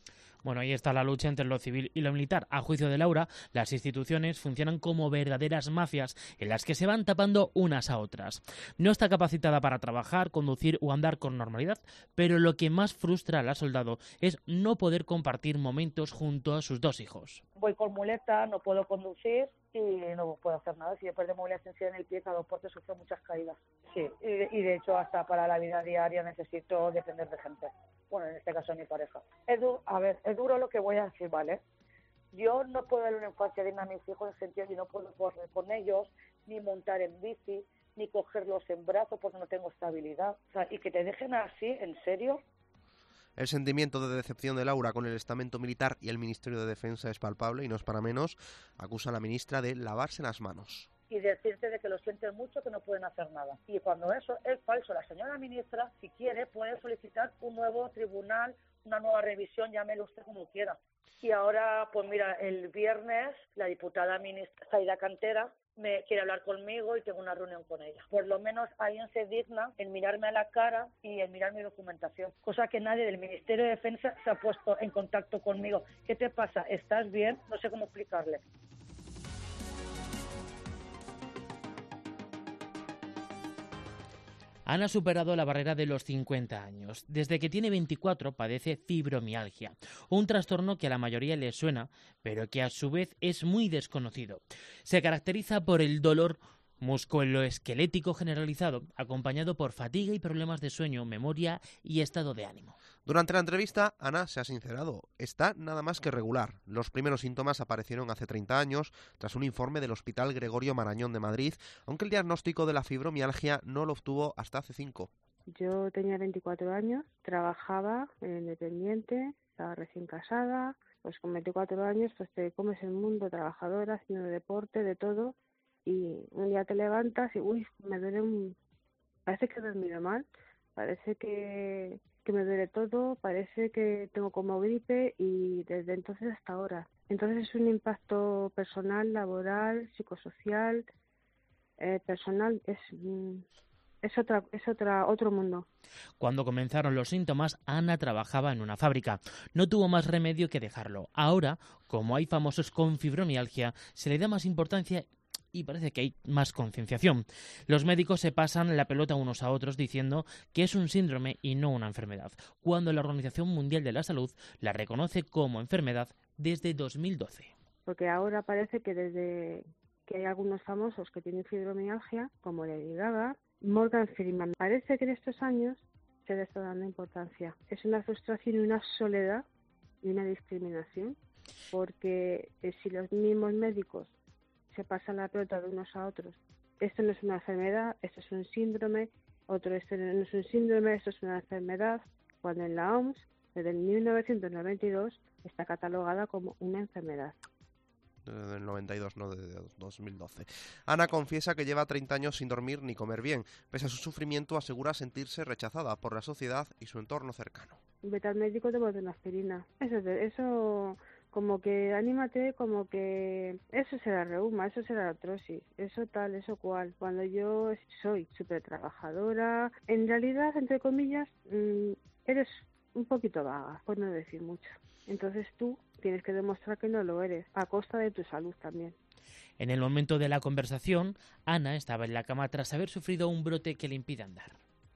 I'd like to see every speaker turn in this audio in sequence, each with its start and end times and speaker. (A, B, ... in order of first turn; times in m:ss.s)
0:00.4-0:17.4 A
0:17.6-0:31.6 B
0:32.3-0:42.4 B
0:43.4-0:50.9 C
0:51.1-1:18.4 B
1:24.6-1:42.8 A
1:43.0-1:55.1 C
1:55.5-2:08.6 D
2:09.2-2:20.8 D
2:21.8-2:23.4 D
2:24.0-2:25.7 D
2:26.2-2:47.5 A
2:47.8-2:59.4 D
3:00.0-3:01.2 D
3:01.7-3:04.1 D
3:04.7-3:17.4 D
3:18.2-3:27.8 C
3:28.0-3:49.0 D
3:49.6-3:54.6 A